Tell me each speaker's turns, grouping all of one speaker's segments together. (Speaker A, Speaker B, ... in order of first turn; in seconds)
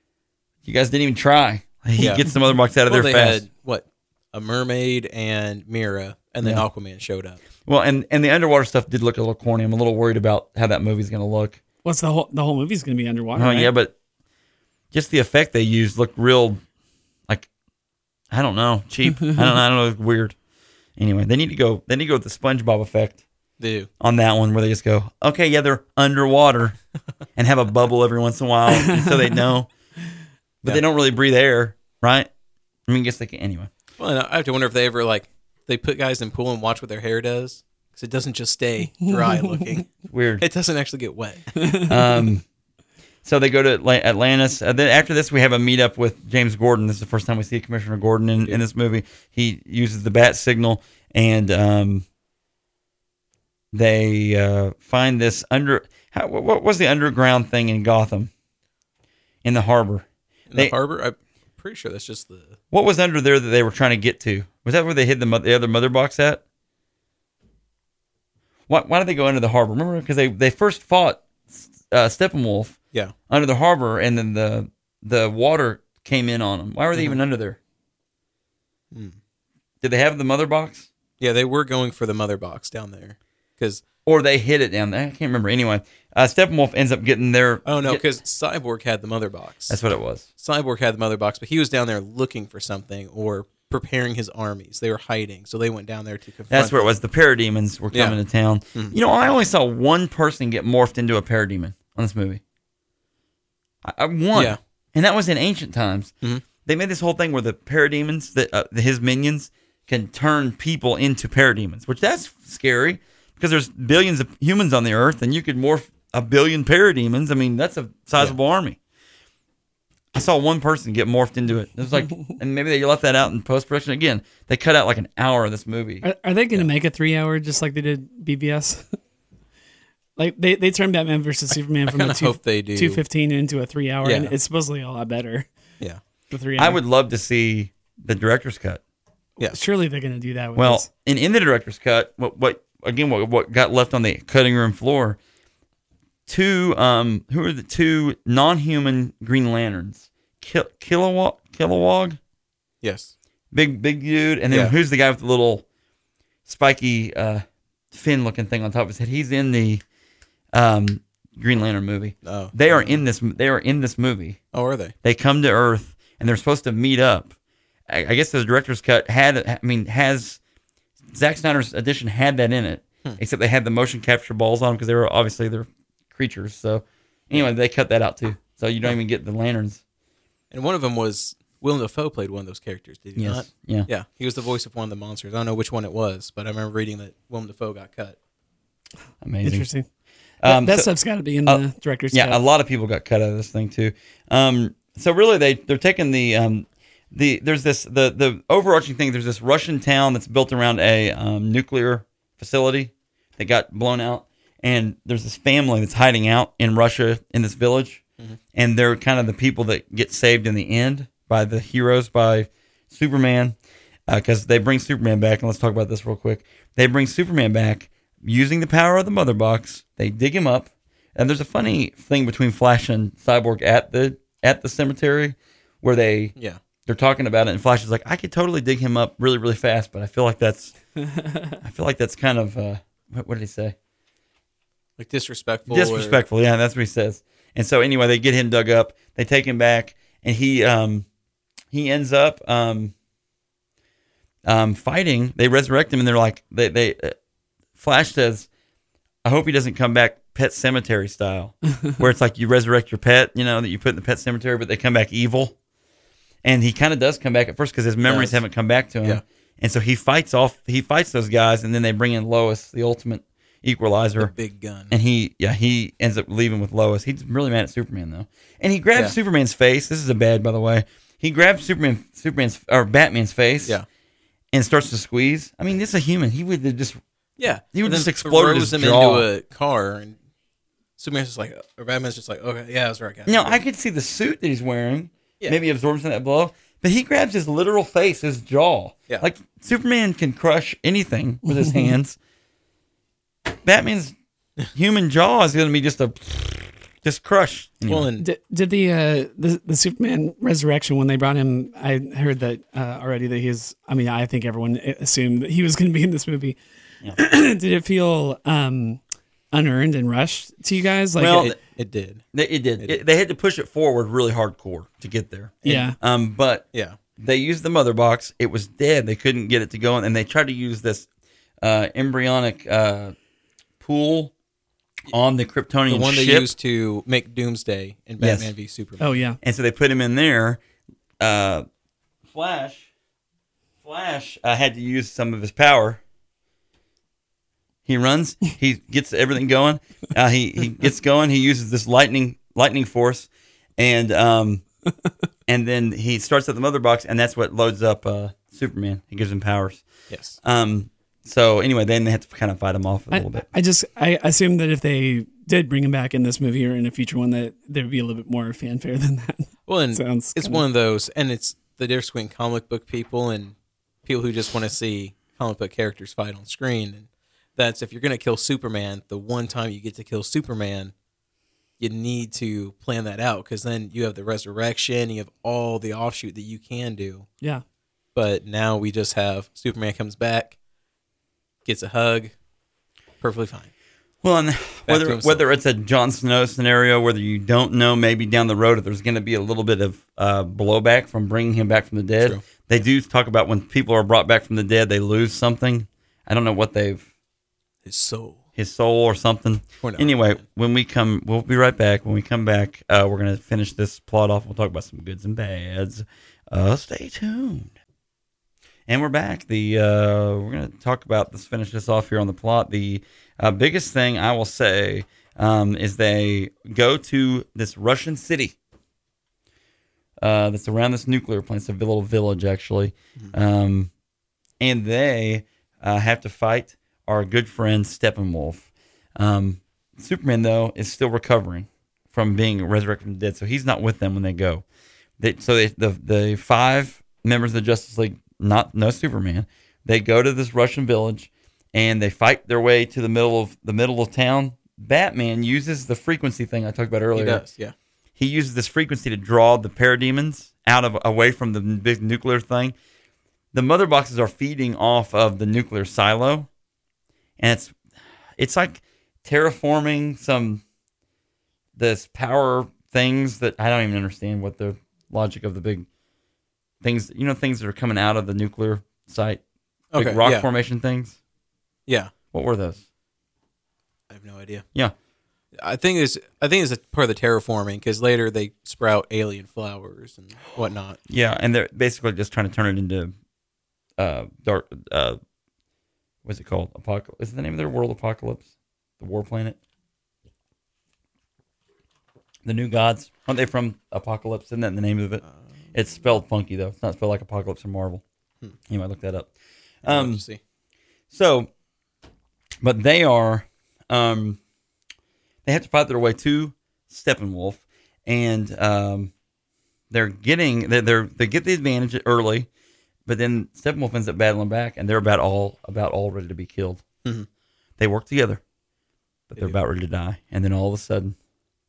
Speaker A: 0.6-3.4, 7.7-11.6, 13.3-13.9, 14.9-16.6, 18.3-20.4, 21.0-23.2, 24.0-26.8, 27.4-29.7, 30.6-32.3, 32.9-33.7, 40.1-40.4, 41.9-42.4, 43.2-52.0, 53.7-58.3, 59.4-60.7, 62.7-66.4, 68.7-72.8, 73.3-77.6, 79.8-80.9, 84.0-88.0, 89.7-90.2, 96.5-102.4, 103.8-118.8, 120.1-126.0, 136.6-138.8, 140.6-145.2, 146.3-152.2, 153.5-155.6, 156.4-159.8, 160.5-164.4, 165.0-167.3, 167.9-170.4, 171.1-179.8, 183.2-183.9, 189.2-189.7, 190.4-190.9, 191.4-208.0, 208.5-213.6, 214.1-226.3, 226.8-230.7, 231.6-233.8, 235.7-241.1, 241.7-242.9, 244.4-247.2, 247.8-248.5, 249.2-255.5, 256.4-264.3, 264.9-273.8, 274.5-277.0, 277.7-279.3, 283.2-292.2, 293.6-294.1, 294.7-298.1, 311.2-311.6, 312.3-316.6, 317.2-321.1, 321.6-323.1, 323.8-324.3, 325.1-326.5, 328.2-328.5, 329.4-330.6, 331.2-331.6, 332.3-332.9, 333.8-336.0, 337.8-344.6, 345.5-349.8, 350.4-353.4, 384.2-397.0, 398.6-407.7, 408.9-418.6, 420.2-423.9, 424.6-434.6, 435.2-447.4, 448.2-452.7, 453.5-456.5, 457.4-457.7, 458.4-460.6, 461.8-465.9, 466.8-469.4, 469.9-471.2, 472.3-472.8, 481.1-483.1, 484.0-485.2, 486.2-488.5, 489.0-489.6, 492.4-498.0, 498.7-499.3, 499.8-500.2, 501.1-501.5, 502.6-504.4, 505.4-509.1, 509.9-512.5, 513.0-516.8, 517.8-518.4, 519.3-521.1
Speaker B: 2.0-2.2, 2.9-7.4, 23.6-23.9, 34.0-41.5, 60.5-62.6, 78.9-79.2, 81.2-83.8, 87.6-89.8, 90.4-96.9, 97.9-98.2, 104.3-104.6, 131.8-133.0, 134.0-134.3, 152.8-153.1, 154.5-154.7, 162.2-163.0, 164.5-164.9, 180.5-188.2, 235.0-236.2, 258.0-258.4, 264.2-264.9, 277.4-280.2, 281.0-283.6, 297.9-298.3, 311.3-312.2, 315.6-315.9, 325.9-329.0, 350.1-350.4, 359.7-370.9, 371.8-377.3, 378.1-380.6, 381.6-382.3, 383.2-383.7, 384.9-385.4, 397.8-398.4, 399.8-400.4, 447.1-447.7, 469.9-470.5, 471.9-472.1, 474.1-474.6, 475.6-481.0, 499.8-500.4
Speaker C: 11.8-13.7, 28.7-29.4, 39.0-39.4, 41.6-42.0, 126.0-129.0, 130.2-135.5, 136.3-136.8, 139.4-140.9, 189.4-189.9, 190.4-192.4, 298.2-309.0, 309.5-311.5, 315.6-315.9, 329.0-329.4, 353.1-360.6